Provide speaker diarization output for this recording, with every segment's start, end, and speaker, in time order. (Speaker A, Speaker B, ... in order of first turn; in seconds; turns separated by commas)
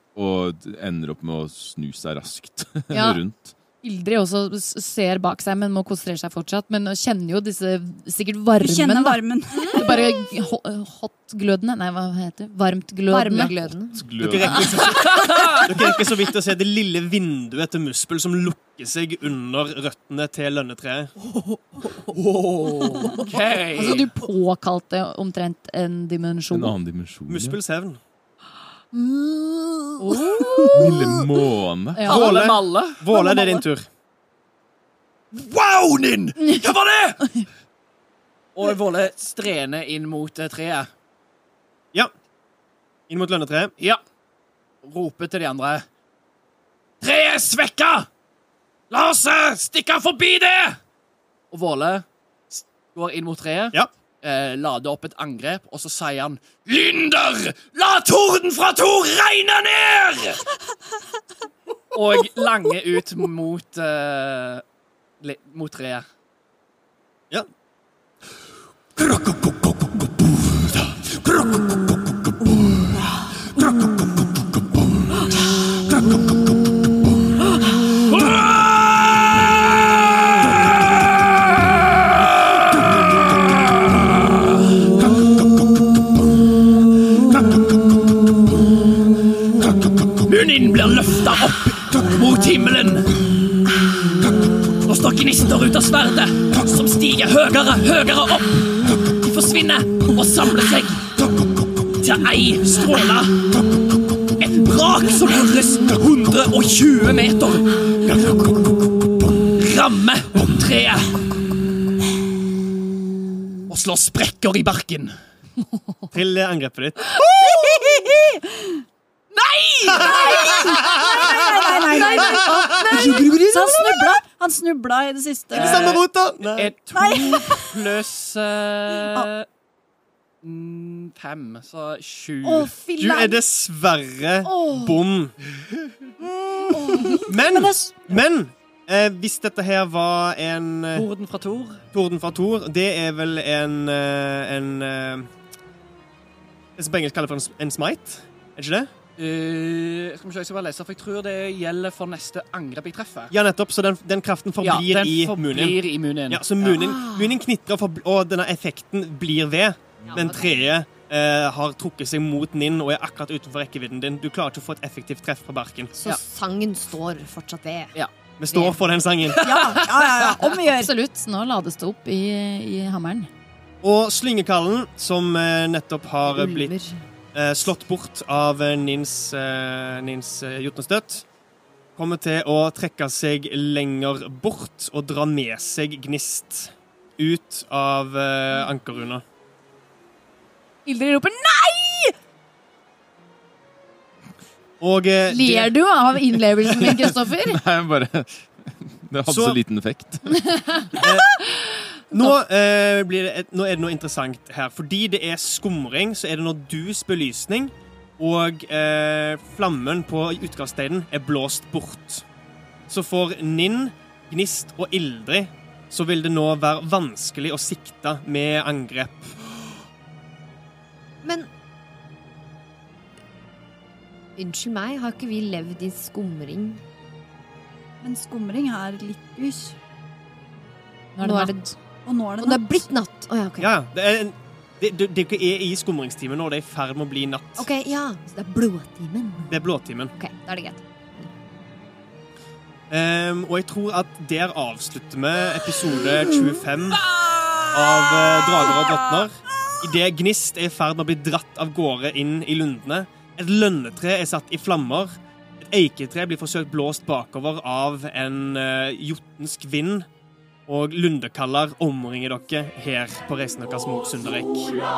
Speaker A: 0.1-3.5, Speaker B: 2.9-3.2, Speaker B: 3.8-9.2, Speaker C: 8.6-9.8, Speaker D: 9.5-10.0, Speaker B: 9.7-13.5, Speaker D: 13.1-14.0, Speaker A: 13.9-15.1, Speaker E: 14.2-21.1, Speaker F: 14.9-15.7, Speaker F: 22.1-24.1, Speaker B: 23.7-26.8, Speaker A: 26.5-27.6, Speaker E: 27.3-28.0, Speaker B: 30.0-30.7, Speaker F: 30.1-31.0, Speaker A: 30.7-32.0, Speaker B: 31.9-32.2, Speaker F: 32.0-33.0, Speaker E: 32.0-33.9, Speaker C: 33.1-33.6, Speaker F: 35.3-37.4, Speaker F: 38.5-40.9, Speaker E: 43.1-43.7, Speaker F: 44.8-45.9, Speaker F: 47.0-48.1, Speaker F: 48.9-50.8, Speaker F: 51.5-60.4, Speaker F: 61.9-64.6, Speaker F: 65.2-66.0, Speaker F: 69.0-71.8, Speaker F: 78.1-79.4, Speaker F: 90.2-93.2, Speaker F: 94.8-101.1, Speaker F: 102.0-103.4, Speaker F: 104.4-108.7, Speaker F: 109.6-111.2, Speaker F: 113.7-115.1, Speaker E: 116.1-117.2, Speaker F: 117.4-117.8, Speaker C: 117.4-118.8, Speaker F: 119.3-124.2, Speaker E: 119.9-121.0, Speaker C: 120.0-126.0, Speaker E: 122.2-122.6, Speaker F: 125.5-129.4, Speaker E: 125.5-126.7, Speaker C: 126.9-127.7, Speaker F: 130.4-132.8, Speaker C: 132.6-133.2, Speaker E: 133.0-135.3, Speaker C: 136.2-138.1, Speaker E: 137.2-141.1, Speaker F: 140.9-141.8, Speaker E: 141.9-145.3, Speaker E: 146.8-148.9, Speaker F: 149.2-153.3, Speaker E: 153.3-155.8, Speaker F: 154.6-156.8, Speaker E: 156.3-165.9, Speaker D: 156.7-157.4, Speaker D: 160.1-160.7, Speaker D: 165.9-168.8, Speaker E: 168.4-169.4, Speaker F: 169.4-169.8, Speaker C: 169.4-170.9, Speaker B: 170.7-173.3, Speaker E: 173.8-176.7, Speaker D: 176.2-177.0, Speaker E: 177.3-181.2, Speaker E: 181.9-189.2, Speaker B: 190.8-192.1, Speaker E: 194.8-195.7, Speaker B: 195.3-197.6, Speaker A: 196.8-200.7, Speaker E: 199.3-199.6, Speaker B: 200.6-200.8, Speaker E: 201.0-201.4, Speaker B: 201.4-201.7, Speaker E: 202.1-212.2, Speaker E: 212.9-219.3, Speaker D: 221.2-221.5, Speaker D: 224.4-226.8, Speaker C: 228.0-229.8, Speaker B: 231.1-231.8, Speaker D: 231.2-231.6, Speaker C: 232.0-232.9, Speaker D: 232.4-233.7, Speaker E: 233.6-237.7, Speaker D: 237.6-241.3, Speaker E: 239.5-240.1, Speaker E: 242.9-247.0, Speaker E: 247.7-260.1, Speaker E: 260.7-264.8